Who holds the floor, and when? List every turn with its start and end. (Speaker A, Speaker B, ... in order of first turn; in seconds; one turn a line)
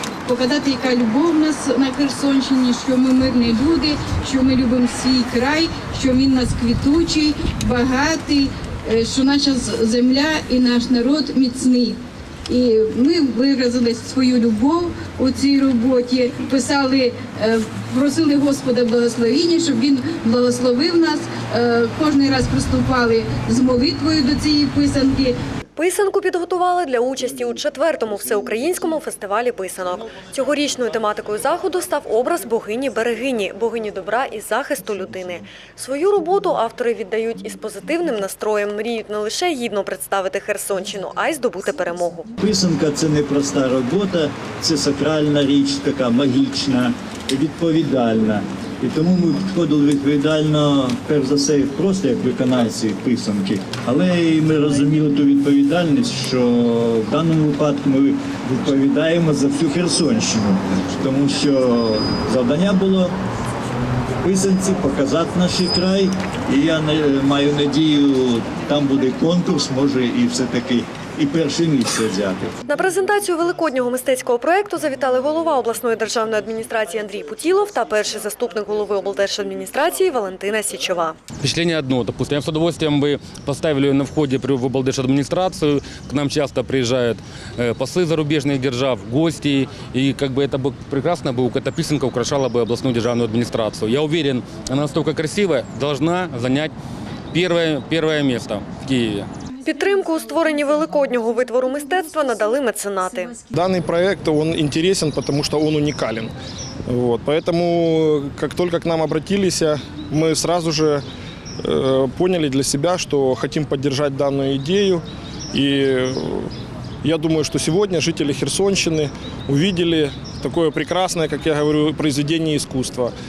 Speaker A: 0.2-25.4
Speaker B: 25.8-42.3
Speaker C: 42.4-63.1
Speaker C: 64.2-72.6
Speaker B: 72.7-81.2
Speaker D: 81.4-96.7
Speaker D: 97.3-99.3
Speaker B: 99.7-103.4
Speaker E: 103.5-106.3
Speaker E: 106.9-111.0
Speaker E: 111.6-116.5
Speaker E: 117.0-123.1